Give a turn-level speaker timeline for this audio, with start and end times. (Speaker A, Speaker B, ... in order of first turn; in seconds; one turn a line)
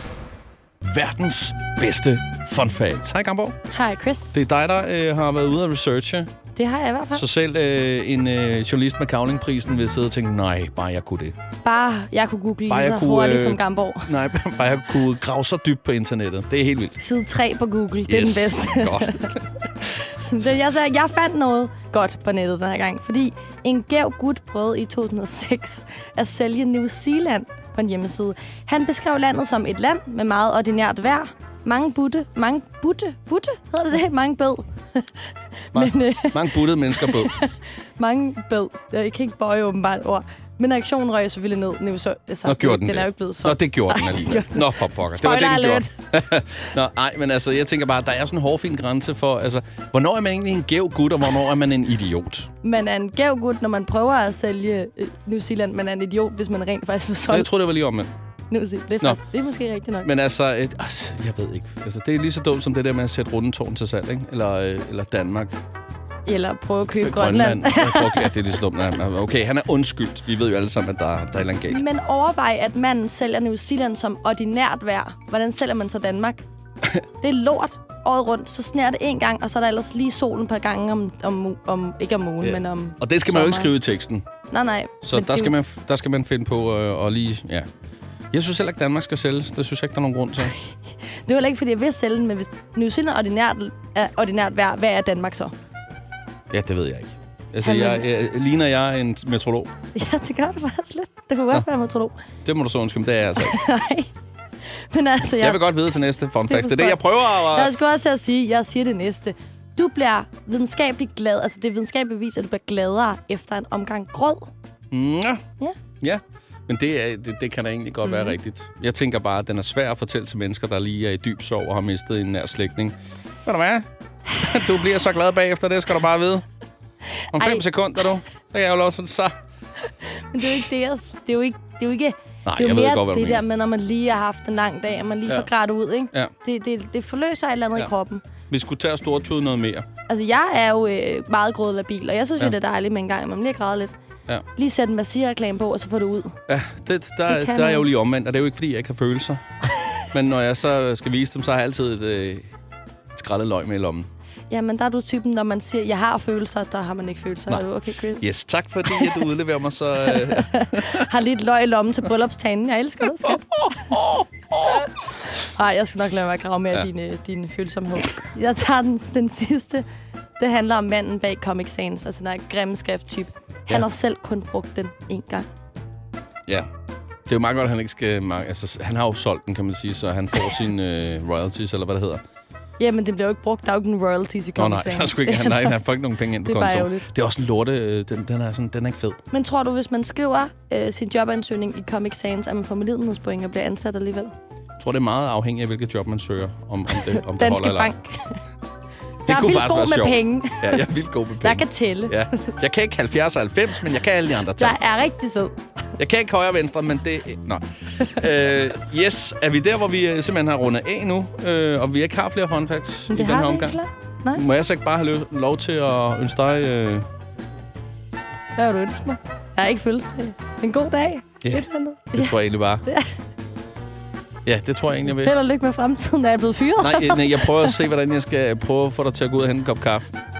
Speaker A: 0.8-3.6
Speaker B: 3.7-4.4
Speaker A: 4.3-6.3
Speaker B: 6.5-7.3
Speaker A: 7.1-11.3
Speaker B: 11.6-14.1
Speaker A: 12.7-16.9
Speaker B: 17.0-45.9
Speaker A: 18.1-19.6
Speaker A: 35.7-37.3
Speaker A: 42.4-52.5
Speaker B: 52.6-57.5
Speaker A: 57.3-58.1
Speaker B: 58.5-60.1
Speaker A: 60.0-65.6
Speaker B: 66.2-68.3
Speaker A: 67.0-71.8
Speaker B: 71.7-76.5
Speaker B: 77.2-83.7
Speaker A: 82.4-84.2
Speaker B: 84.5-85.5
Speaker A: 85.0-87.7
Speaker A: 88.3-90.6
Speaker B: 91.2-95.5
Speaker A: 96.5-99.7
Speaker B: 97.6-98.1
Speaker B: 99.9-102.2
Speaker A: 102.4-103.6
Speaker B: 103.4-104.1
Speaker B: 104.9-105.8
Speaker A: 105.4-107.7
Speaker B: 106.5-114.5
Speaker A: 114.9-115.4
Speaker A: 116.0-126.4
Speaker B: 118.0-118.4
Speaker B: 127.3-127.6
Speaker A: 127.3-129.3
Speaker B: 129.9-138.2
Speaker A: 132.4-133.4
Speaker A: 138.5-139.9
Speaker B: 140.1-143.9
Speaker B: 144.6-146.4
Speaker A: 146.5-149.4
Speaker B: 147.3-147.9
Speaker A: 150.1-152.5
Speaker A: 153.1-154.1
Speaker B: 154.5-158.3
Speaker A: 158.2-161.1
Speaker B: 158.8-159.3
Speaker B: 160.1-164.0
Speaker A: 163.2-164.9
Speaker B: 164.6-169.8
Speaker B: 170.4-175.5
Speaker A: 177.3-182.2
Speaker B: 182.8-185.8
Speaker A: 184.6-189.2
Speaker B: 186.4-187.1
Speaker B: 189.3-194.3
Speaker A: 194.8-197.9
Speaker B: 196.9-198.4
Speaker B: 199.3-202.5
Speaker A: 199.3-204.8
Speaker B: 204.5-205.6
Speaker A: 206.0-213.8
Speaker B: 213.1-214.4
Speaker A: 214.3-217.1
Speaker B: 218.6-223.2
Speaker A: 221.4-222.8
Speaker A: 224.4-225.3
Speaker B: 225.1-227.8
Speaker A: 226.8-230.1